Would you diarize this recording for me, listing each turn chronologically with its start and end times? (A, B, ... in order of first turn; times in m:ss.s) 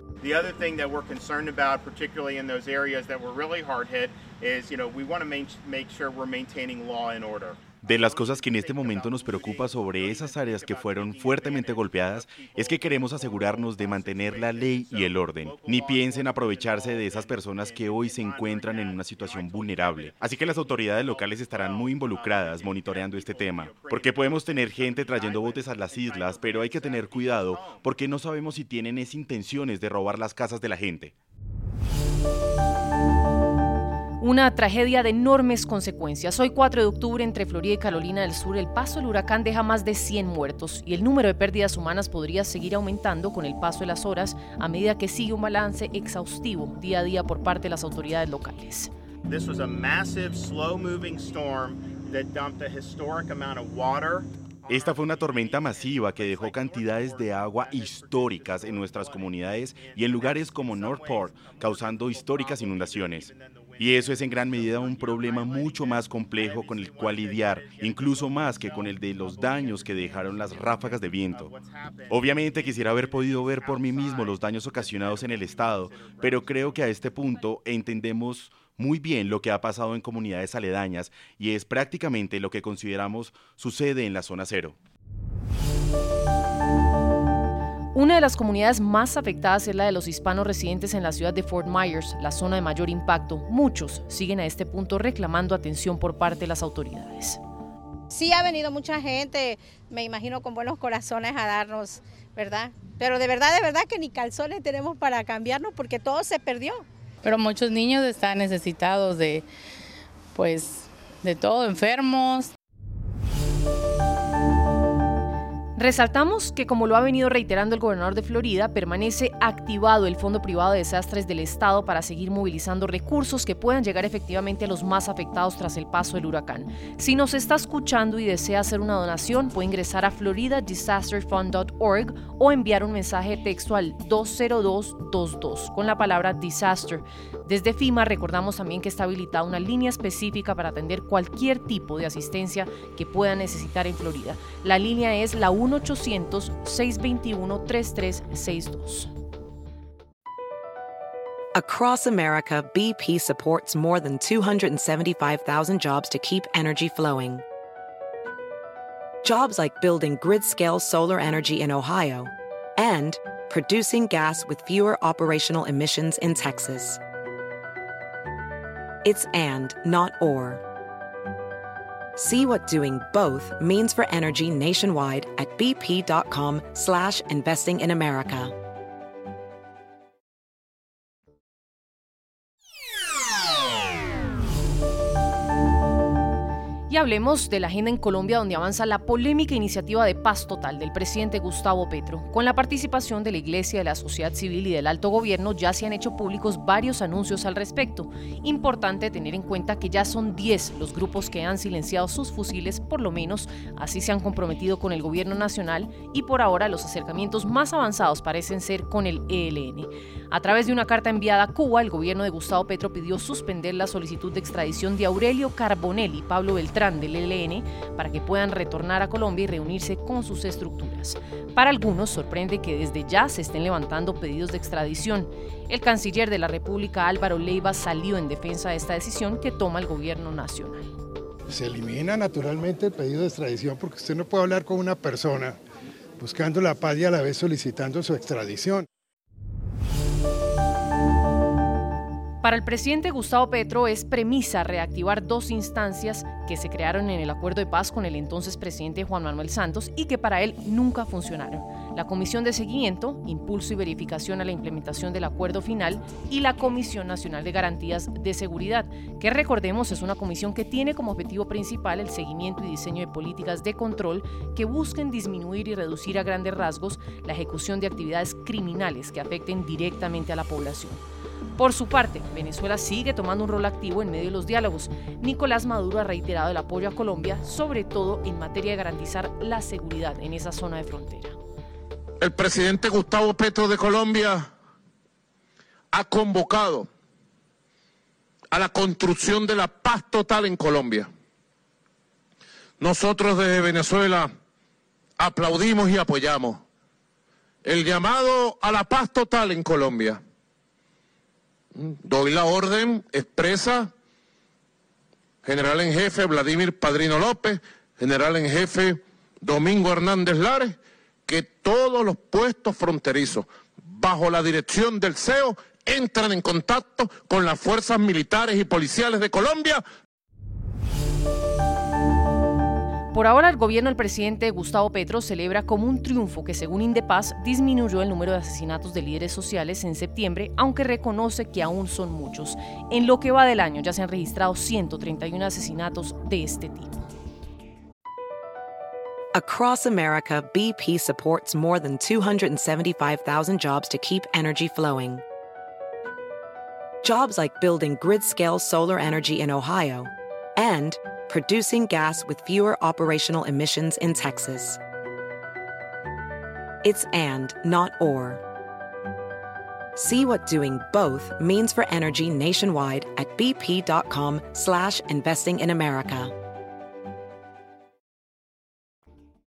0:00.2-0:27.9 A
0:07.8-0:31.2 B
0:34.2-0:48.9 C
0:49.3-1:17.3 A
0:54.7-1:11.4 B
1:12.1-1:24.8 B
1:28.0-1:37.4 C
1:38.1-1:46.8 D
1:47.2-1:49.4 E
1:50.4-1:52.5 E
1:55.8-2:29.1 C
2:31.6-2:37.4 F
2:39.2-2:47.0 F
2:49.0-2:50.6 F
2:52.2-2:58.5 F
3:06.9-3:50.9 C
3:51.5-3:55.6 G
3:56.2-3:58.9 G
4:02.4-4:31.0 C
4:31.6-4:41.4 C
4:42.2-4:44.5 H
4:45.9-4:46.9 H
4:48.5-4:51.1 H
4:52.8-4:54.4 H
4:55.2-4:56.6 H
4:57.6-5:00.2 H
5:01.8-5:03.9 H
5:05.4-5:19.8 H
5:23.1-5:37.0 C
5:39.3-5:45.2 F
5:47.0-5:54.8 F
5:56.8-5:58.4 F
6:00.0-6:06.3 F